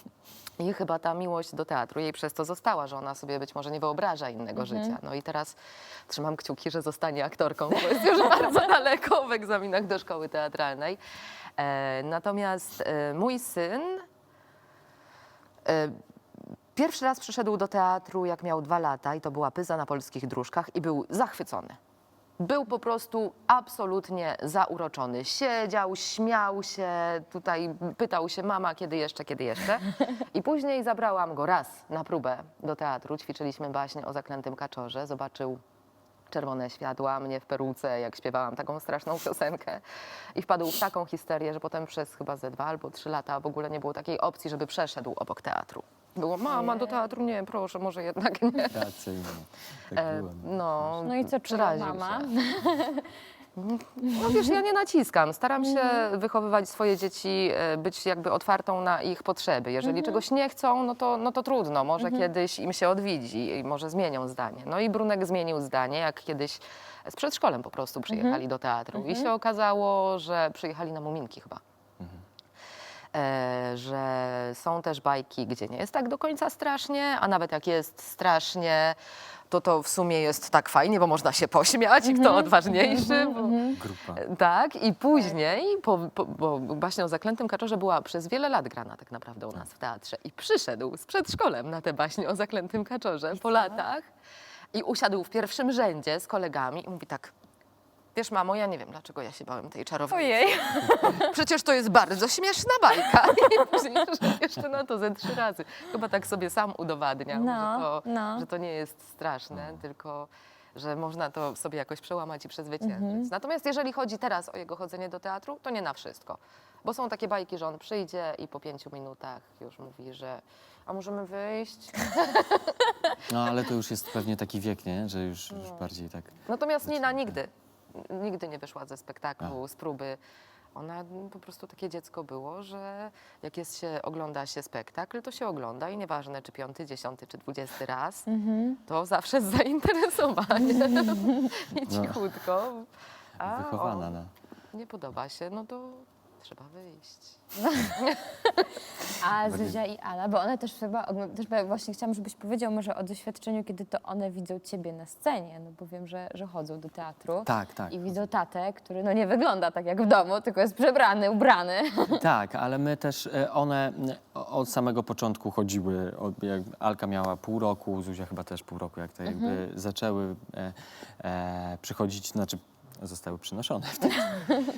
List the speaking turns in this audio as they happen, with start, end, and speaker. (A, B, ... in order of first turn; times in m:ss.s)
0:00.6-0:05.6 A
0:04.6-0:05.0 B
0:06.1-0:11.0 A
0:11.6-0:14.0 A
0:15.6-0:16.0 A
0:16.7-0:21.8 A
0:22.4-0:35.6 A
0:36.3-0:39.8 A
0:40.3-0:48.8 A
0:46.4-0:47.0 B
0:48.7-0:51.0 C
0:49.9-0:52.3 A
0:51.0-0:53.1 B
0:53.6-1:11.6 A
0:55.6-0:56.0 B
0:59.8-1:00.2 B
1:08.1-1:08.4 B
1:08.9-1:09.3 B
1:13.1-1:19.0 A
1:19.5-1:34.1 A
1:22.0-1:23.8 B
1:23.8-1:24.2 C
1:33.4-1:33.8 B
1:34.7-1:37.3 A
1:38.1-1:40.4 A
1:40.1-1:41.3 B
1:40.9-2:02.7 A
1:47.3-1:48.4 B
1:49.5-1:49.8 C
1:52.8-1:53.3 B
2:03.3-2:07.1 C
2:06.5-2:10.2 A
2:10.7-2:18.3 A
2:18.3-2:18.8 B
2:18.9-2:24.1 A
2:21.8-2:22.2 C
2:23.4-2:24.3 C
2:24.7-2:28.3 A
2:27.6-2:27.9 B
2:28.6-2:42.2 B
2:29.4-2:29.8 C
2:37.4-2:38.1 C
2:42.1-2:54.5 C
2:49.2-2:49.6 B